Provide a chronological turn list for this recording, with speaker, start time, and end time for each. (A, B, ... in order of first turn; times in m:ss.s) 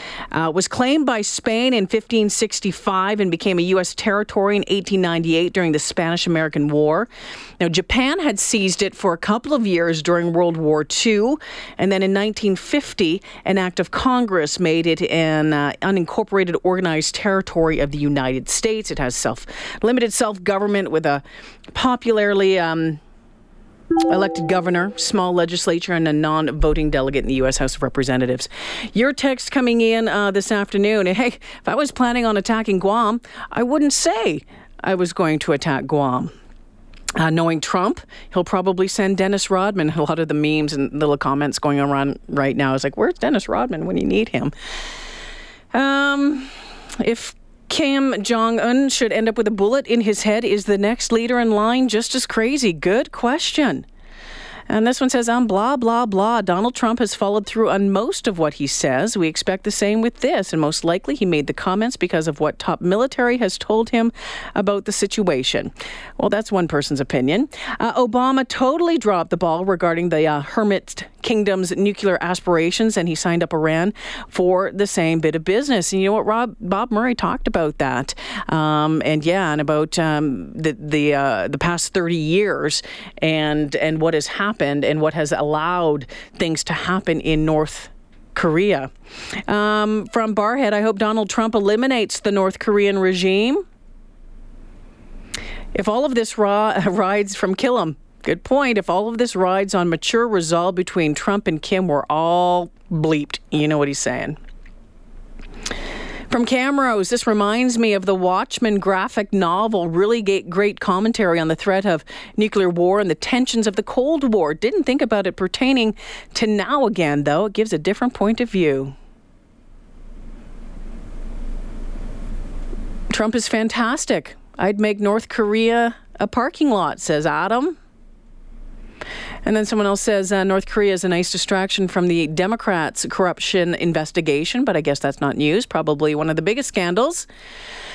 0:00.3-0:07.1 A
0:07.6-0:21.2 A
0:21.7-0:23.0 A
0:24.0-0:36.3 A
0:37.2-0:44.5 A
0:45.7-0:46.5 A
0:47.0-0:53.8 A
0:54.7-1:28.9 A
1:29.5-1:33.6 A
1:35.7-1:44.4 A
1:46.3-1:59.0 A
2:03.1-2:07.8 A
2:09.4-2:17.3 A